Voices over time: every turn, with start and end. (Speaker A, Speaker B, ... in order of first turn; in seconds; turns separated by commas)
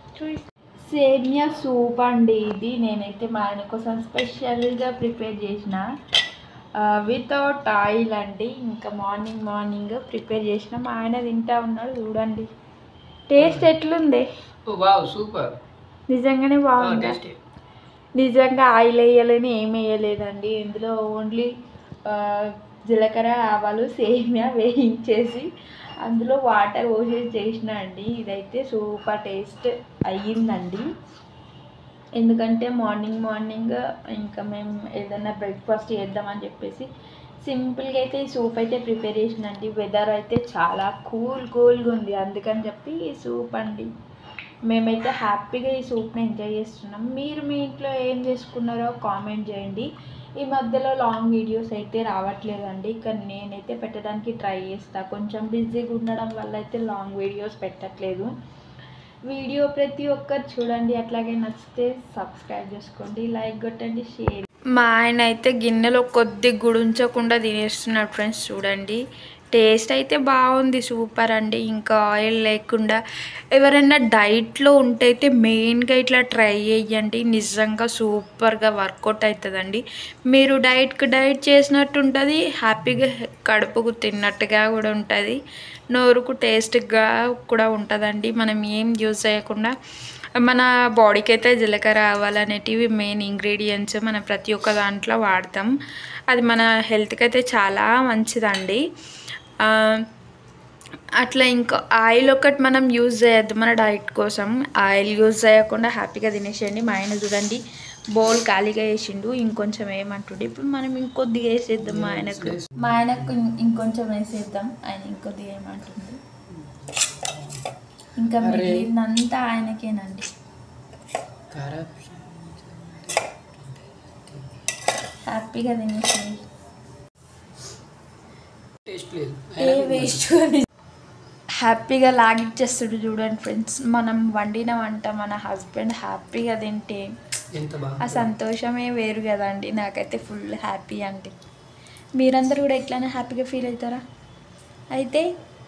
Speaker A: 0.2-5.8, Speaker A: 6.8-12.5, Speaker A: 13.3-14.3, Speaker B: 13.4-13.7, Speaker B: 14.7-15.5, Speaker A: 16.1-17.2, Speaker B: 16.8-17.4, Speaker A: 18.2-21.5, Speaker A: 22.1-25.5, Speaker A: 26.0-30.9, Speaker A: 32.2-36.9, Speaker A: 37.4-43.9, Speaker A: 44.7-58.3, Speaker A: 59.3-69.0, Speaker A: 69.5-73.0, Speaker A: 73.5-85.4, Speaker A: 85.9-89.7, Speaker A: 90.4-95.7, Speaker A: 96.3-98.8, Speaker A: 99.6-100.0, Speaker A: 101.2-107.6, Speaker A: 108.1-116.2, Speaker B: 111.8-113.4, Speaker B: 116.5-117.7, Speaker A: 118.2-120.3, Speaker B: 118.4-118.9, Speaker B: 121.5-124.6, Speaker A: 125.3-126.4, Speaker B: 128.9-130.4, Speaker A: 129.6-130.6, Speaker A: 131.6-137.1, Speaker B: 137.5-138.3, Speaker A: 138.0-141.3, Speaker A: 142.2-144.0, Speaker A: 144.9-145.3